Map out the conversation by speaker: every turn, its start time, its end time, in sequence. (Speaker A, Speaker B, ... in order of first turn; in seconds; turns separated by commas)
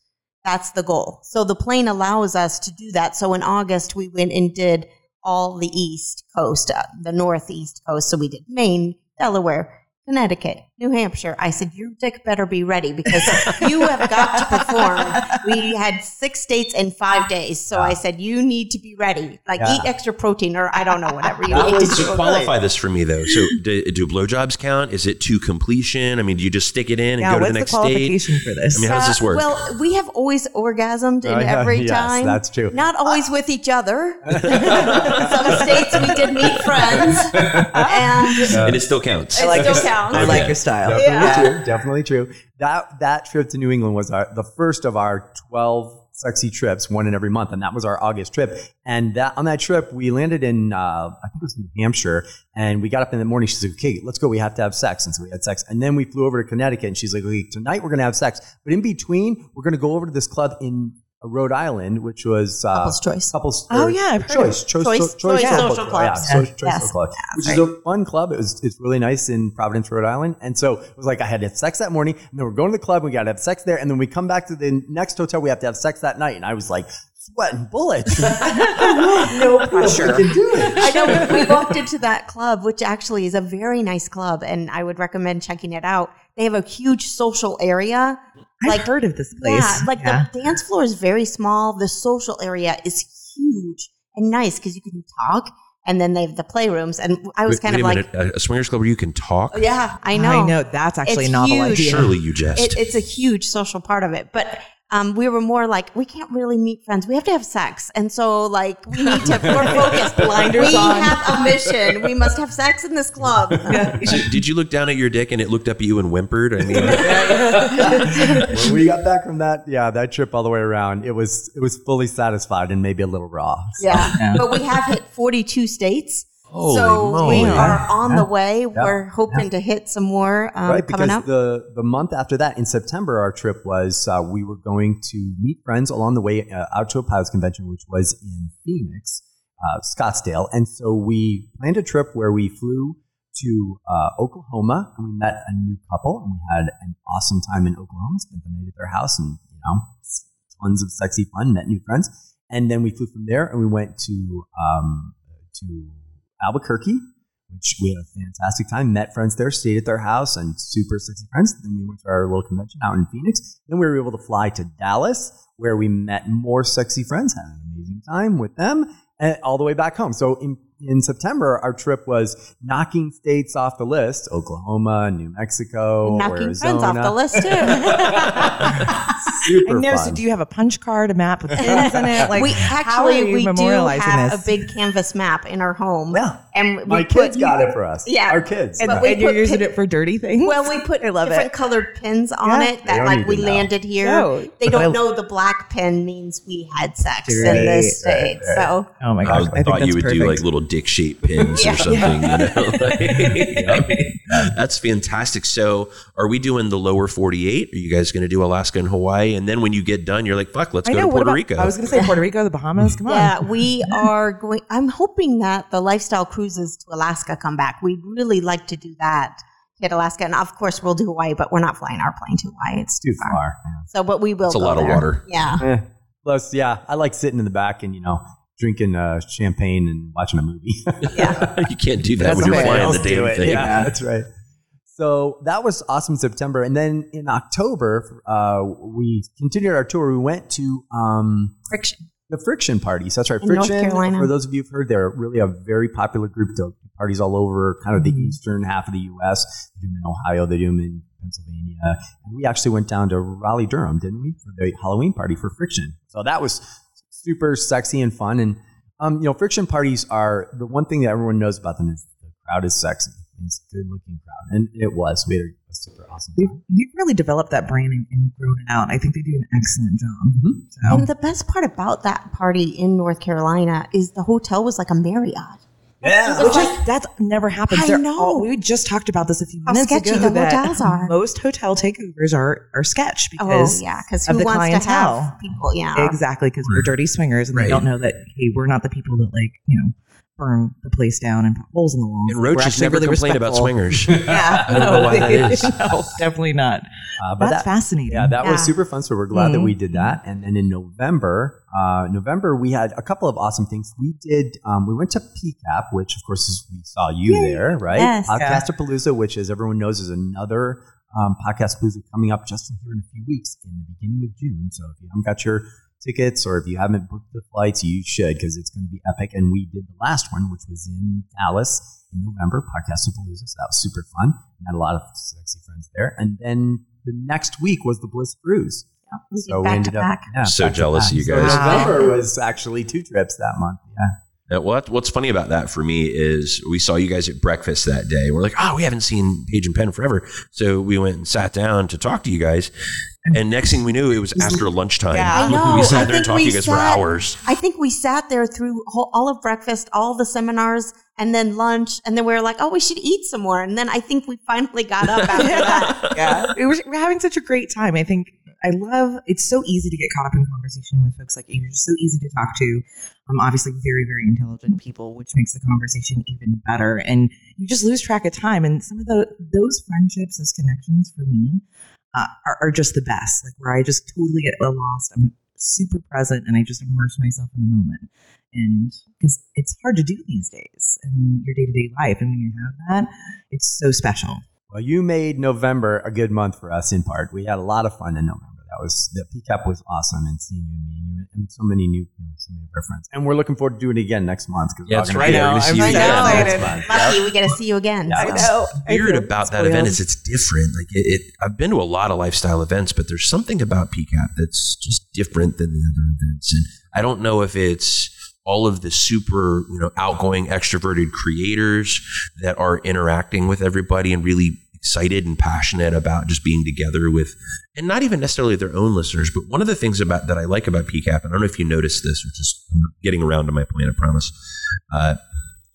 Speaker A: 0.4-22.5, Speaker B: 13.3-13.8, Speaker C: 13.4-13.6, Speaker B: 14.4-15.4, Speaker C: 17.7-18.0, Speaker C: 19.6-19.9, Speaker C: 21.5-22.5, Speaker D: 21.5-28.2, Speaker B: 27.2-28.9, Speaker D: 28.7-29.6, Speaker A: 28.8-38.7, Speaker C: 31.2-32.8, Speaker C: 34.3-38.8, Speaker D: 34.5-35.8, Speaker D: 38.5-40.6, Speaker A: 39.3-40.4, Speaker B: 39.4-41.6, Speaker C: 39.5-81.7, Speaker A: 40.9-41.5, Speaker A: 62.7-63.3, Speaker B: 63.7-64.6, Speaker A: 64.7-66.0, Speaker B: 65.3-65.7, Speaker D: 65.4-66.4, Speaker B: 66.2-66.5, Speaker A: 66.6-67.6, Speaker B: 78.2-81.5, Speaker A: 80.6-98.0, Speaker B: 88.6-90.3, Speaker D: 97.5-99.7, Speaker A: 99.5-114.0, Speaker B: 100.1-102.1, Speaker D: 101.7-102.8, Speaker B: 109.0-111.2, Speaker C: 109.2-111.5, Speaker C: 113.4-114.1, Speaker B: 113.7-114.2, Speaker D: 114.0-117.6, Speaker C: 116.7-124.8, Speaker B: 117.1-118.3, Speaker A: 123.8-131.2, Speaker B: 124.1-124.4, Speaker D: 126.5-127.7, Speaker B: 127.2-127.8, Speaker C: 127.2-129.4, Speaker C: 130.7-180.2, Speaker A: 176.0-179.0, Speaker B: 177.9-178.9, Speaker B: 179.5-184.7, Speaker C: 181.5-182.3, Speaker A: 181.6-189.7, Speaker C: 186.1-189.1, Speaker B: 188.8-191.5, Speaker A: 190.4-198.9, Speaker B: 192.4-192.7, Speaker C: 192.8-193.7, Speaker B: 194.0-195.0, Speaker B: 197.2-198.0, Speaker C: 197.4-198.7, Speaker B: 199.0-200.4, Speaker C: 199.2-199.7, Speaker D: 199.2-211.8, Speaker C: 201.3-202.1, Speaker A: 201.5-202.0, Speaker B: 201.9-203.9, Speaker C: 203.5-204.5, Speaker B: 210.8-213.5, Speaker A: 213.1-225.6, Speaker C: 223.0-223.9, Speaker D: 224.5-225.2, Speaker C: 225.6-234.3, Speaker D: 231.0-233.9, Speaker A: 231.1-231.5, Speaker B: 232.2-233.9, Speaker C: 234.9-241.6, Speaker A: 241.7-242.0, Speaker C: 242.3-266.6, Speaker A: 243.4-244.3, Speaker B: 247.9-248.4, Speaker B: 266.4-271.0, Speaker C: 270.3-271.0, Speaker A: 270.9-276.8, Speaker C: 276.0-276.7, Speaker B: 276.4-285.4, Speaker A: 277.7-278.5, Speaker A: 279.7-281.1, Speaker A: 283.4-286.2, Speaker B: 285.9-296.8, Speaker D: 287.5-287.8, Speaker D: 292.3-296.0, Speaker C: 294.1-295.9, Speaker C: 297.2-334.1, Speaker B: 297.4-298.4, Speaker A: 298.4-298.7, Speaker B: 299.4-299.7, Speaker A: 299.4-299.7, Speaker B: 307.2-307.8, Speaker A: 307.9-308.4, Speaker B: 308.3-308.6, Speaker A: 329.1-330.3, Speaker D: 330.4-331.8, Speaker B: 331.3-332.1, Speaker A: 331.7-332.1, Speaker D: 334.5-342.7, Speaker D: 343.3-347.4, Speaker B: 344.4-345.6, Speaker A: 345.2-356.1, Speaker D: 355.1-356.4, Speaker B: 355.4-371.6, Speaker B: 372.1-384.4, Speaker C: 384.7-397.3, Speaker D: 394.9-396.6, Speaker B: 395.2-397.1, Speaker A: 395.8-398.5, Speaker C: 398.1-398.5, Speaker B: 398.1-400.0, Speaker D: 398.8-424.4, Speaker D: 424.9-425.2